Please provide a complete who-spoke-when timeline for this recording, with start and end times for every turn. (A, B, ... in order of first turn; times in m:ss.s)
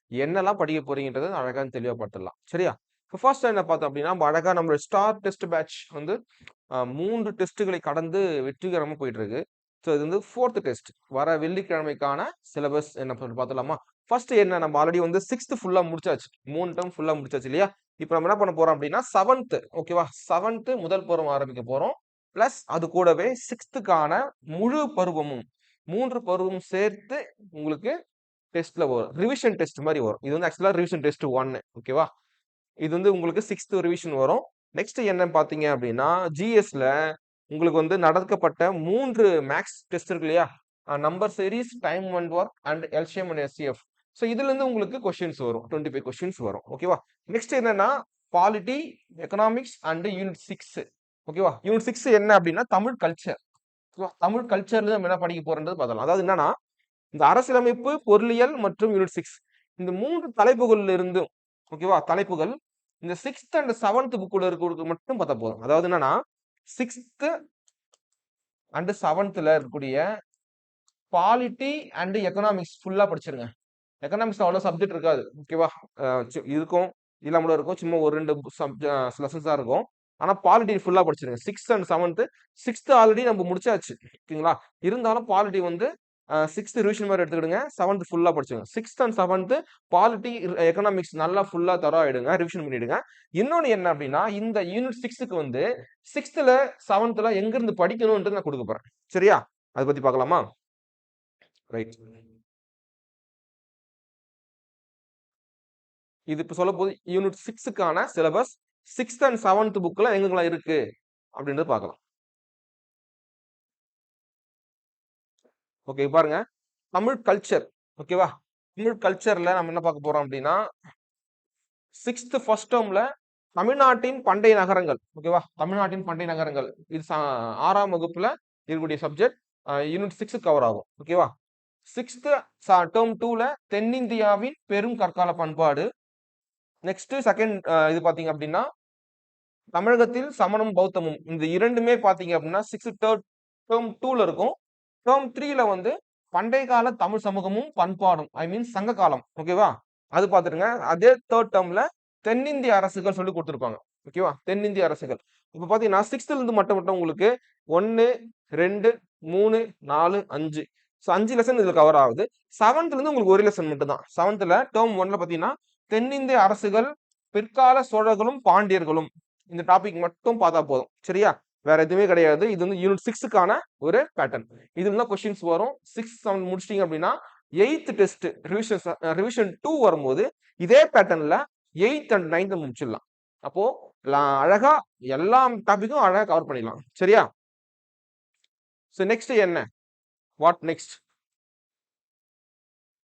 0:00.2-0:06.2 A
0:06.8-0:27.9 A
0:28.5-0:32.1 A
0:32.8-0:36.9 A
0:37.5-0:53.4 A
0:54.0-0:56.5 A
0:57.1-1:06.2 A
1:06.7-1:07.3 A
1:08.8-1:10.0 A
1:11.1-1:13.5 A
1:14.0-1:25.9 A
1:26.4-1:40.4 A
1:41.7-1:42.0 A
1:46.3-1:50.8 A
1:51.4-1:52.0 A
1:55.9-1:56.4 A
1:56.9-2:00.6 A
2:02.0-2:03.0 A
2:03.6-2:11.3 A
2:11.9-2:15.9 A
2:16.8-2:18.7 A
2:19.7-3:07.2 A
3:08.9-3:09.6 A
3:10.4-3:11.0 A